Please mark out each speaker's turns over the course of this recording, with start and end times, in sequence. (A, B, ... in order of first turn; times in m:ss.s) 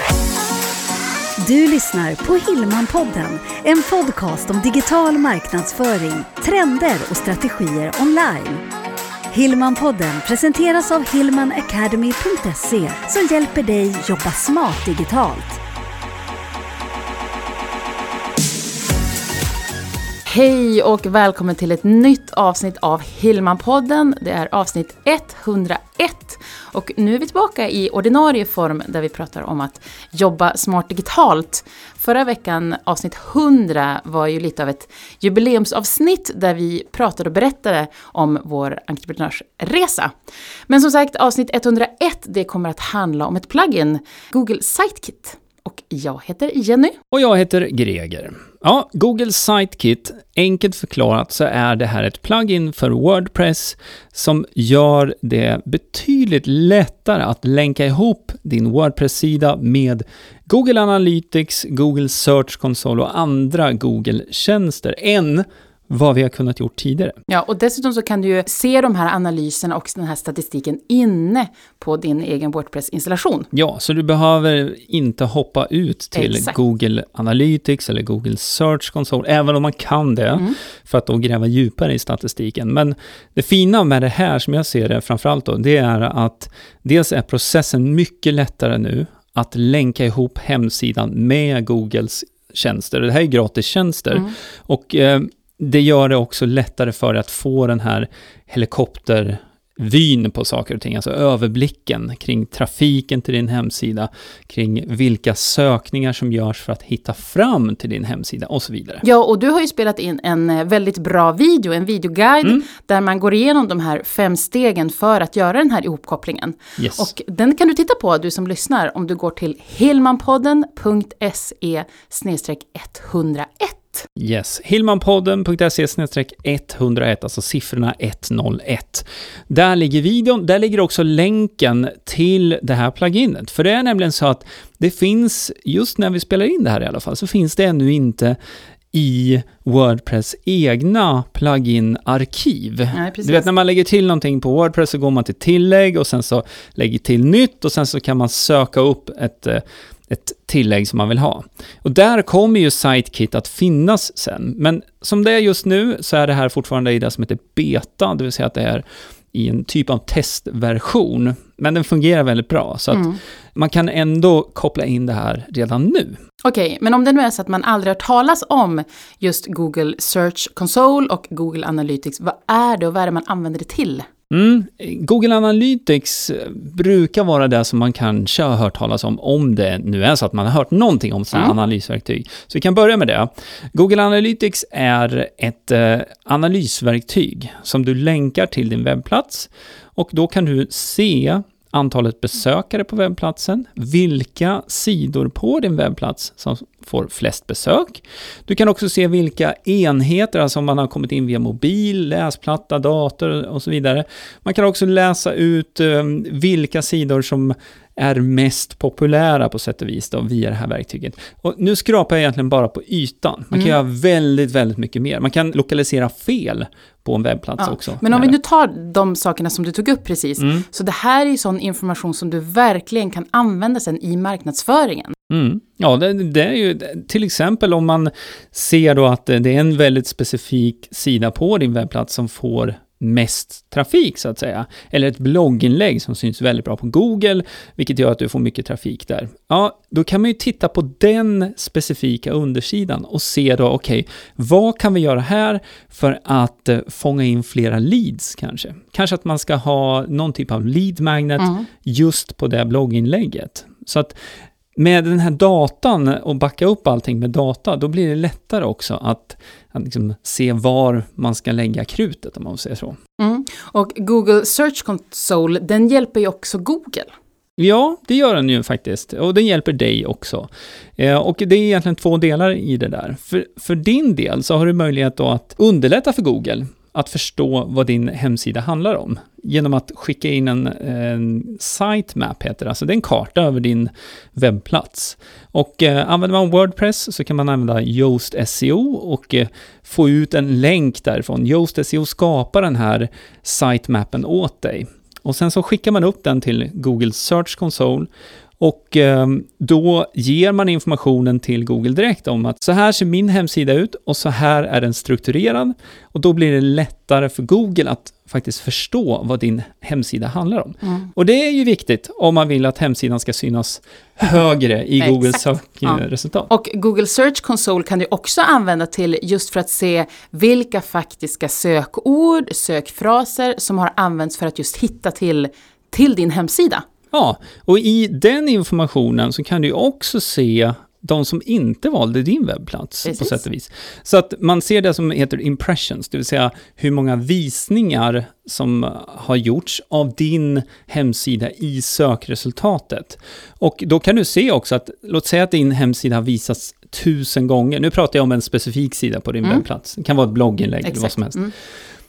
0:01.4-0:08.6 A
0:09.3-0:15.6 A
0:20.3-0:40.1 B
0:40.7-0:47.0 B
0:47.1-1:07.2 C
1:07.3-1:13.5 B
1:13.5-1:49.0 C
1:16.2-1:16.6 B
1:49.0-2:04.1 B
1:56.8-1:57.1 C
2:04.2-2:18.4 C
2:18.9-2:46.2 C
2:22.9-2:23.5 B
2:46.4-2:54.1 B
2:54.3-3:38.4 C
3:37.6-3:45.1 B
3:40.4-3:40.6 C
3:45.3-4:14.2 C
4:14.8-4:23.0 C
4:23.2-4:27.1 B
4:27.6-4:58.1 C
4:58.6-5:16.5 C
5:10.8-5:11.1 B
5:15.0-5:26.8 B
5:27.1-5:51.5 C
5:33.1-5:33.4 B
5:50.9-5:51.5 B